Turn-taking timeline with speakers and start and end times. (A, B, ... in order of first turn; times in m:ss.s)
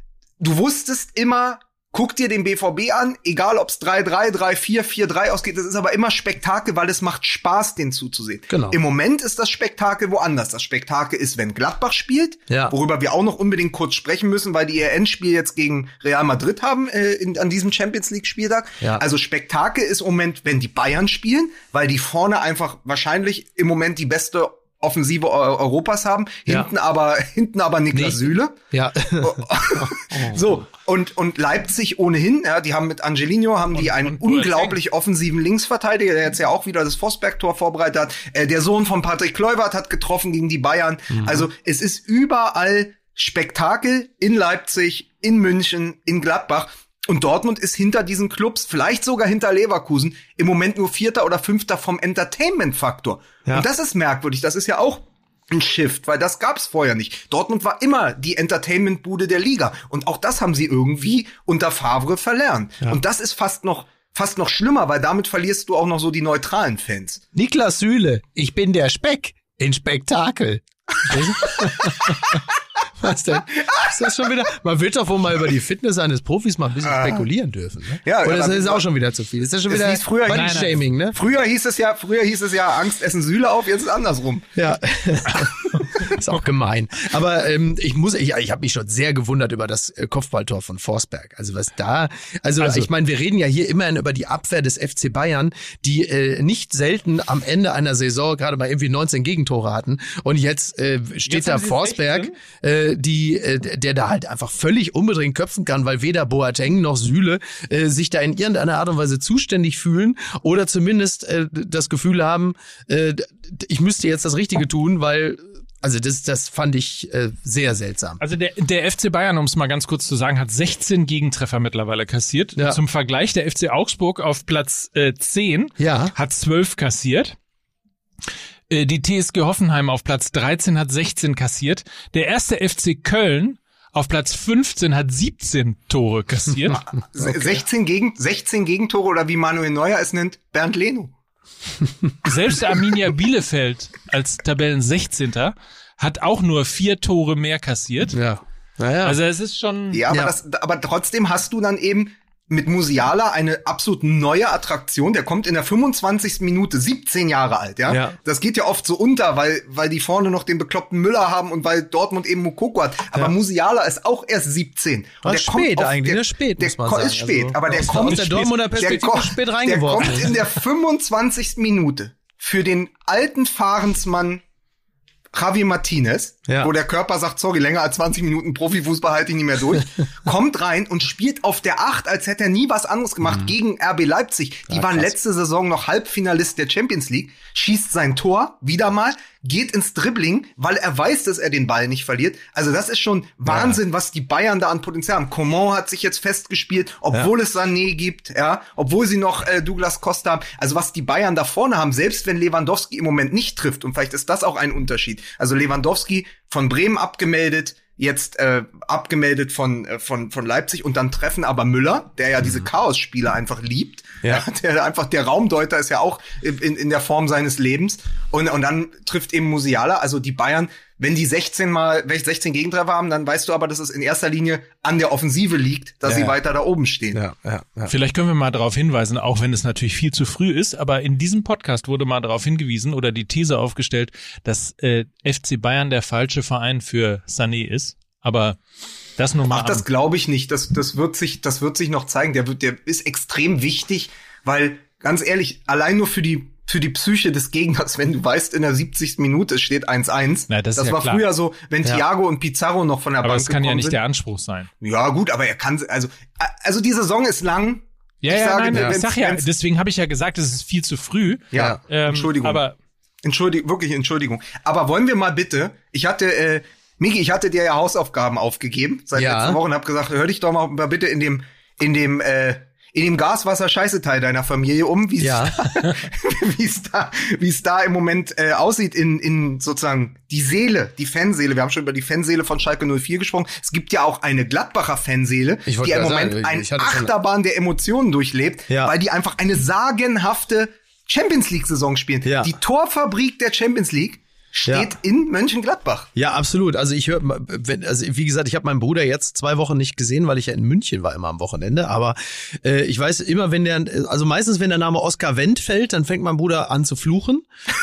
0:00.4-0:28.6 A
0:08.5-0:08.8 B
0:12.5-0:12.7 B
0:27.9-0:30.5 B
0:29.2-1:07.2 A
0:33.8-0:34.8 C
0:41.1-0:41.5 B
1:07.4-1:12.4 B
1:13.0-1:21.2 B
1:13.7-1:14.3 A
1:16.8-1:17.3 A
1:18.0-1:18.9 A
1:19.7-1:24.5 A
1:20.3-1:20.8 C
1:24.6-1:58.2 B
1:32.6-1:32.9 C
1:41.3-1:42.4 C
1:58.2-2:07.4 C
2:05.8-2:06.1 B
2:08.7-2:16.8 C
2:16.7-2:21.1 A
2:22.2-2:28.2 C
2:28.1-2:29.2 B
2:29.0-2:30.0 C
2:29.9-2:54.4 A
2:30.1-2:30.3 B
2:37.9-2:38.2 B
2:45.2-2:50.3 B
2:55.3-3:47.2 A
3:03.2-3:03.5 B
3:04.7-3:05.1 B
3:13.5-3:13.8 B
3:46.1-3:46.4 B
3:47.1-3:47.9 B
3:47.9-3:58.6 C
3:59.2-3:59.8 C
3:59.5-4:14.0 A
4:10.5-4:11.2 C
4:13.2-4:14.7 C
4:14.8-4:19.4 A
4:18.2-4:22.8 C
4:21.5-4:22.6 A
4:21.5-4:21.8 B
4:23.2-4:56.1 A
4:29.2-4:29.6 B
4:35.2-4:35.8 B
4:45.7-4:47.1 B
4:48.7-4:48.9 B
4:52.2-4:52.6 B
4:54.7-4:54.9 B
4:56.2-5:07.5 B